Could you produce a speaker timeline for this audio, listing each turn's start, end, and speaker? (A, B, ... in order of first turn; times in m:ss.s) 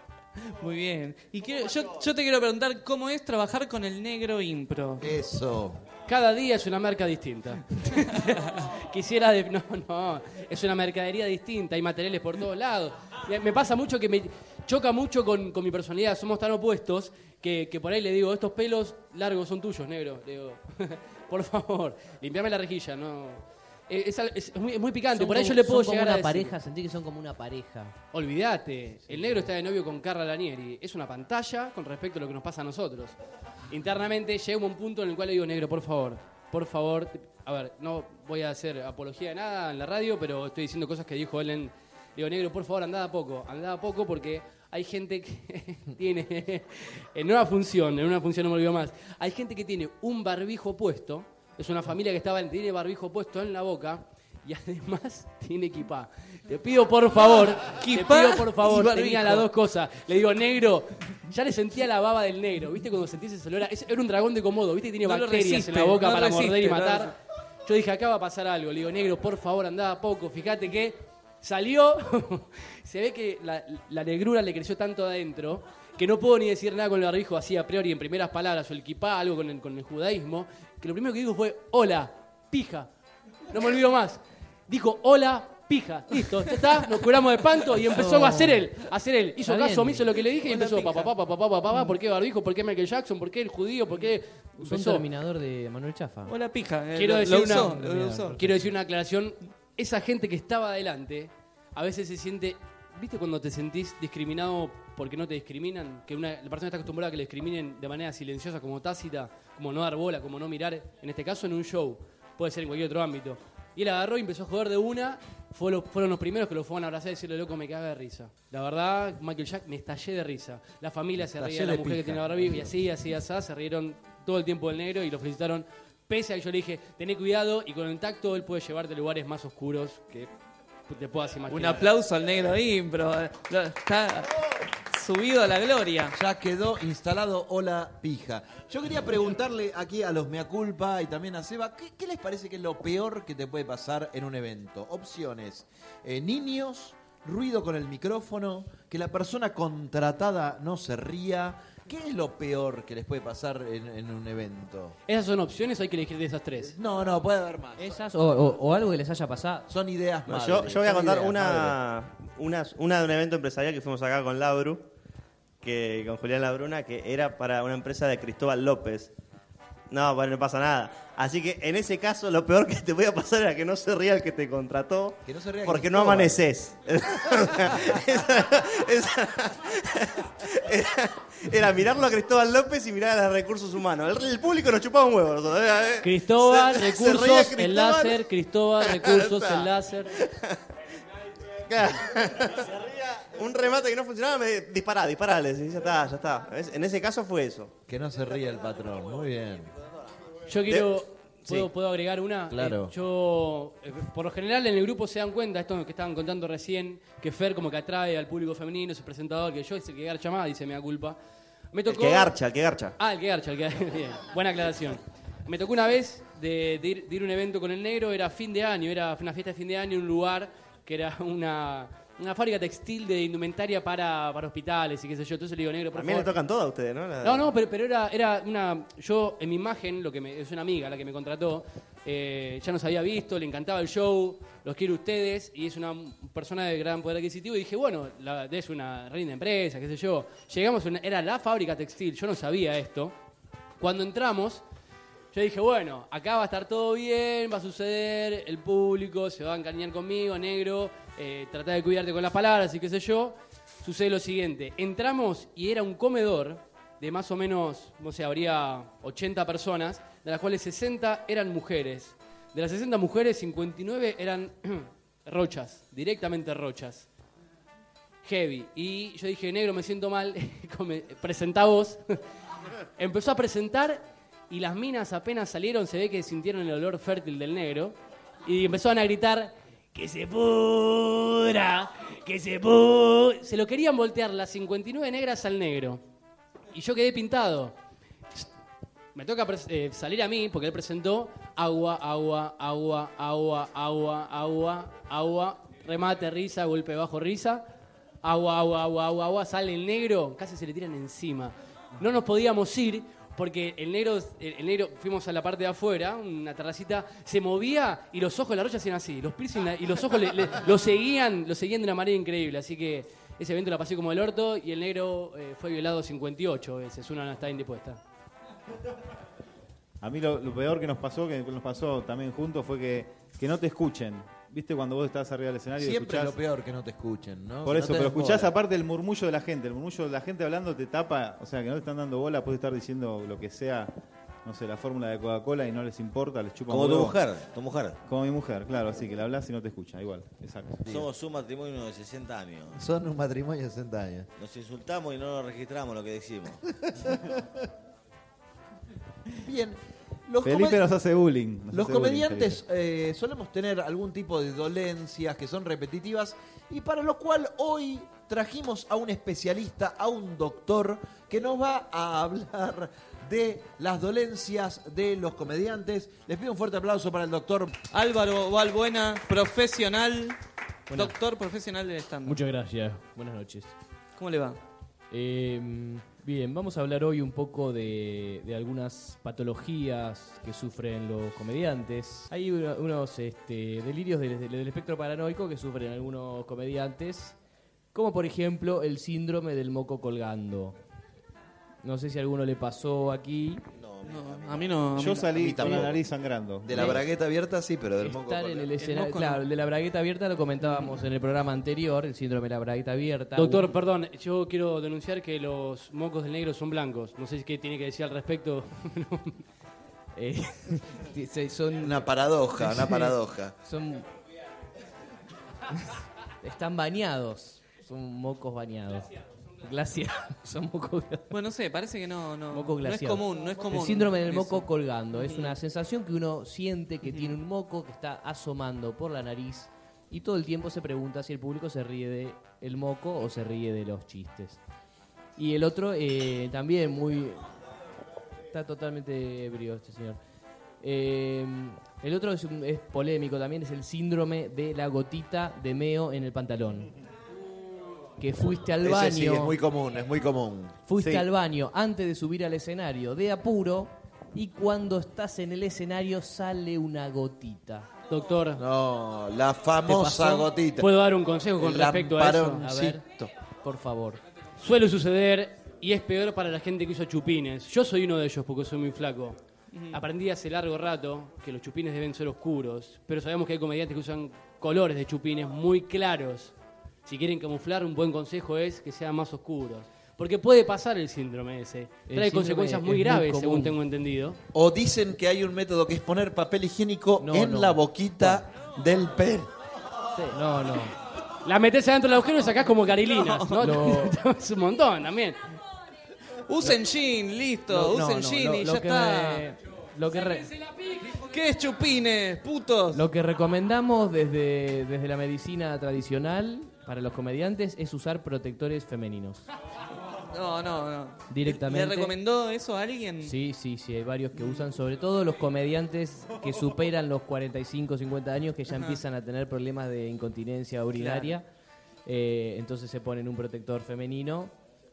0:00.4-0:05.1 A
0:05.0-0:05.8 B
0:06.1-0:26.6 C
0:25.2-0:28.0 D
0:28.1-0:33.2 C
0:29.1-0:29.4 D
0:33.7-1:07.1 C
0:57.8-0:59.5 A
1:05.0-1:07.1 A
1:07.7-1:22.9 C
1:23.5-1:35.0 C
1:27.8-1:28.7 D
1:29.4-1:30.1 D
1:30.3-1:31.1 A
1:34.6-1:36.3 D
1:36.3-1:38.4 A
1:37.0-1:37.8 C
1:37.5-1:38.6 D
1:38.4-2:10.3 C
2:01.2-2:02.7 B
2:10.9-2:11.9 C
2:11.5-2:14.4 A
2:14.9-2:16.2 A
2:16.1-2:35.0 B
2:35.1-2:36.7 C
2:36.6-2:37.9 B
2:37.8-2:39.7 D
2:39.7-2:41.8 B
2:40.3-2:44.8 E
2:45.6-2:49.1 E
2:49.9-3:08.2 E
2:55.2-2:56.4 B
3:06.0-3:10.1 C
3:08.8-3:10.6 E
3:11.7-3:17.7 E
3:17.9-3:19.7 B
3:20.5-3:31.2 C
3:22.5-3:22.9 B
3:31.7-3:32.4 C
3:31.9-3:33.0 E
3:33.0-3:46.3 C
3:45.9-3:47.5 E
3:47.2-4:03.2 C
4:03.8-4:04.6 C
4:05.3-4:27.1 C
4:28.2-4:32.0 C
4:33.0-4:46.0 C
4:46.7-4:47.7 C
4:49.2-4:57.7 C
4:58.2-5:18.0 C
5:20.0-5:26.4 F
5:25.8-5:28.5 B
5:27.6-5:33.9 F
5:34.4-5:37.2 F
5:36.7-5:38.0 G
5:38.0-5:40.9 F
5:40.9-5:42.8 G
5:42.7-5:44.3 B
5:44.4-5:46.6 G
5:49.4-5:50.9 B
5:50.4-5:52.6 F
5:51.7-6:07.7 B
6:07.9-6:10.4 A
6:10.9-6:11.2 D
6:10.9-6:12.4 A
6:12.3-6:13.7 D
6:14.2-6:14.6 A
6:15.1-6:27.4 D
6:27.9-6:30.8 D
6:31.8-6:33.6 D
6:33.7-6:34.9 G
6:34.0-6:35.3 A
6:34.9-6:37.0 F
6:35.4-6:36.0 B
6:36.6-6:38.7 B
6:36.8-6:37.0 D
6:38.0-6:43.8 D
6:38.8-6:39.4 A
6:43.4-6:49.4 C
6:50.2-6:54.0 D
6:51.8-6:53.6 B
6:55.8-6:59.1 D
6:59.6-7:01.3 D
7:01.3-7:05.5 A
7:02.5-7:14.6 D
7:15.4-7:17.4 D
7:18.5-7:20.2 D
7:20.8-7:26.9 D
7:28.2-7:29.6 D
7:28.8-7:30.8 B
7:30.9-7:37.9 D
7:31.0-7:31.3 F
7:38.1-7:38.6 C
7:38.6-7:40.9 B
7:39.8-7:40.5 D
7:40.8-7:42.6 C
7:41.6-7:43.3 B
7:42.5-7:43.0 D
7:43.6-7:44.2 D
7:44.6-7:49.4 C
7:49.7-7:50.0 A
7:49.9-7:56.5 C
7:57.0-8:04.4 C
8:02.1-8:03.8 D
8:04.5-8:09.5 B
8:07.2-8:08.4 D
8:10.2-8:10.9 D
8:11.4-8:15.4 C
8:13.2-8:13.7 A
8:13.6-8:14.2 D
8:16.5-8:19.5 A
8:17.7-8:20.5 D
8:21.0-8:23.0 A
8:22.9-8:29.4 D
8:30.3-8:33.3 A
8:31.3-8:32.2 D
8:33.2-8:41.4 D
8:34.4-8:34.6 A
8:41.0-8:41.4 A
8:42.1-8:44.5 D